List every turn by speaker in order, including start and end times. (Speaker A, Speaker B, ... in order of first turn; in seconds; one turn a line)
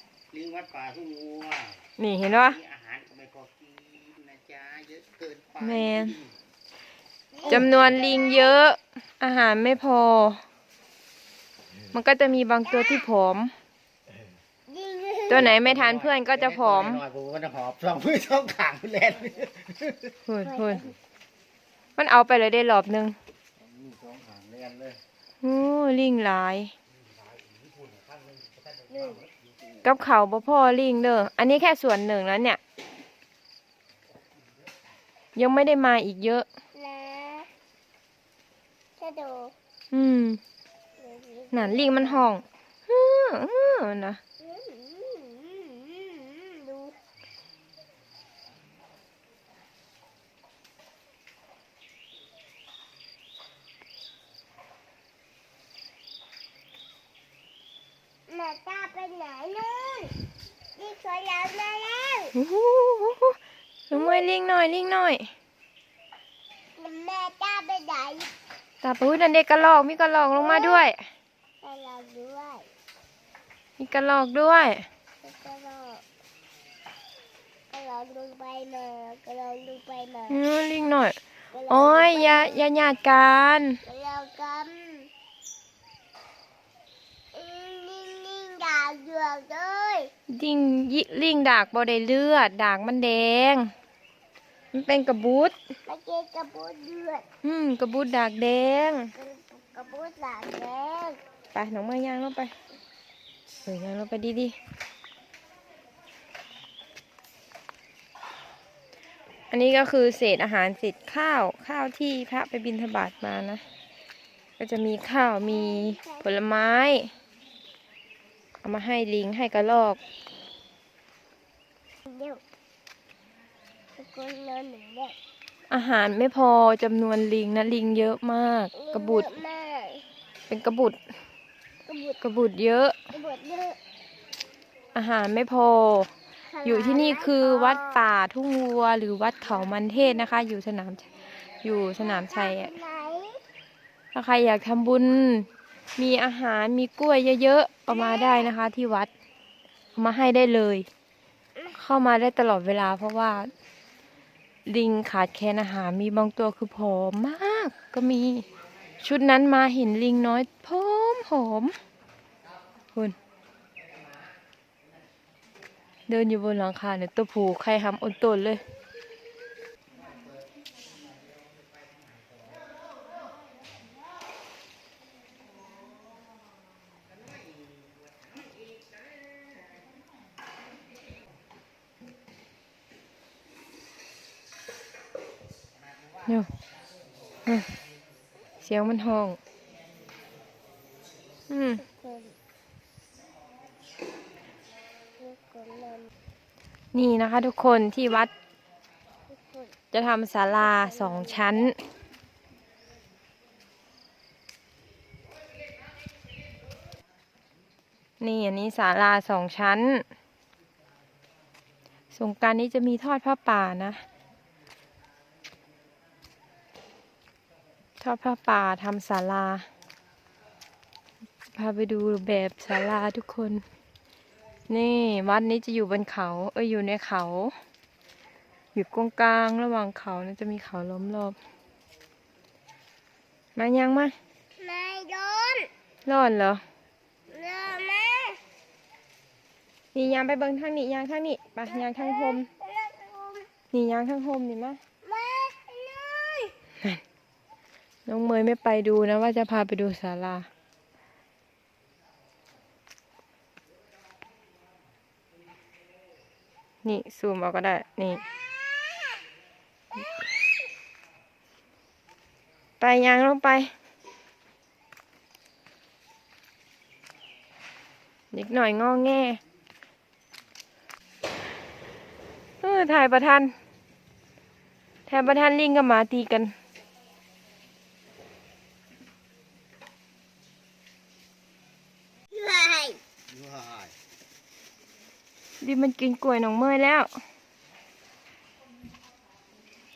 Speaker A: 0.3-6.3
Speaker B: 2.0-2.6
Speaker B: 5.6-6.2
Speaker C: 7.3-8.6
Speaker A: 7.5-7.9
Speaker B: 7.5-10.4
Speaker B: 11.9-13.5
Speaker C: 12.7-13.1
Speaker C: 14.7-15.5
Speaker B: 15.3-17.0
Speaker A: 15.3-20.1
Speaker B: 20.3-20.9
Speaker C: 20.4-20.9
Speaker B: 22.0-23.2
Speaker A: 23.6-25.0
Speaker B: 25.4-26.7
Speaker A: 27.0-29.4
Speaker C: 28.9-29.2
Speaker B: 29.8-32.6
Speaker B: 35.4-36.5
Speaker C: 36.8-37.5
Speaker C: 39.0-39.5
Speaker B: 39.9-40.4
Speaker C: 41.0-42.3
Speaker B: 41.5-44.2
Speaker C: 44.4-47.0
Speaker C: 58.3-62.3
Speaker B: 62.4-63.4
Speaker B: 63.9-65.3
Speaker C: 63.9-64.2
Speaker C: 66.8-68.3
Speaker B: 68.8-71.0
Speaker C: 70.3-70.8
Speaker C: 71.6-72.7
Speaker B: 73.8-74.9
Speaker C: 75.2-76.0
Speaker C: 77.7-80.4
Speaker B: 80.3-81.2
Speaker C: 81.5-82.6
Speaker B: 81.7-83.8
Speaker C: 83.8-85.1
Speaker C: 87.3-90.1
Speaker B: 90.3-93.7
Speaker B: 94.7-95.5
Speaker C: 95.9-97.2
Speaker B: 97.4-99.1
Speaker C: 99.2-101.2
Speaker B: 101.5-102.5
Speaker B: 103.7-104.6
Speaker B: 109.5-113.6
Speaker B: 114.6-117.1
Speaker C: 115.4-116.3
Speaker B: 118.6-120.0
Speaker C: 122.1-122.4
Speaker C: 124.0-125.2
Speaker B: 125.7-129.3
Speaker C: 128.8-130.1
Speaker B: 130.5-131.0
Speaker C: 131.9-132.2
Speaker B: 132.2-133.0
Speaker C: 133.1-133.8
Speaker B: 134.9-136.1
Speaker C: 136.5-138.1
Speaker B: 136.6-141.1
Speaker B: 141.6-142.7
Speaker C: 142.0-143.4
Speaker B: 144.1-149.1
Speaker C: 147.9-148.5
Speaker B: 150.0-150.9
Speaker B: 151.8-153.5
Speaker B: 154.7-158.5
Speaker B: 159.0-161.8
Speaker A: 163.9-164.2
Speaker B: 166.1-168.6
Speaker B: 188.6-189.4
Speaker B: 191.5-191.8
Speaker C: 191.8-192.4
Speaker C: 195.2-196.1
Speaker B: 196.9-198.3
Speaker C: 199.3-199.7
Speaker B: 199.9-201.8
Speaker C: 200.6-201.7
Speaker B: 208.2-210.1
Speaker B: 212.1-214.0
Speaker B: 218.0-219.7
Speaker B: 221.5-223.6
Speaker B: 224.7-227.6
Speaker B: 228.7-231.4
Speaker B: 233.6-234.2
Speaker C: 234.6-235.7
Speaker B: 236.1-236.6
Speaker C: 237.3-238.4
Speaker B: 239.9-242.5
Speaker C: 241.7-243.5
Speaker B: 243.7-244.8
Speaker C: 245.0-246.6
Speaker B: 248.1-250.5
Speaker B: 256.8-258.2
Speaker B: 262.8-263.7
Speaker B: 268.3-269.4
Speaker B: 272.6-273.5
Speaker B: 275.1-276.5
Speaker C: 282.3-283.0
Speaker A: 283.3-283.9
Speaker B: 285.6-287.1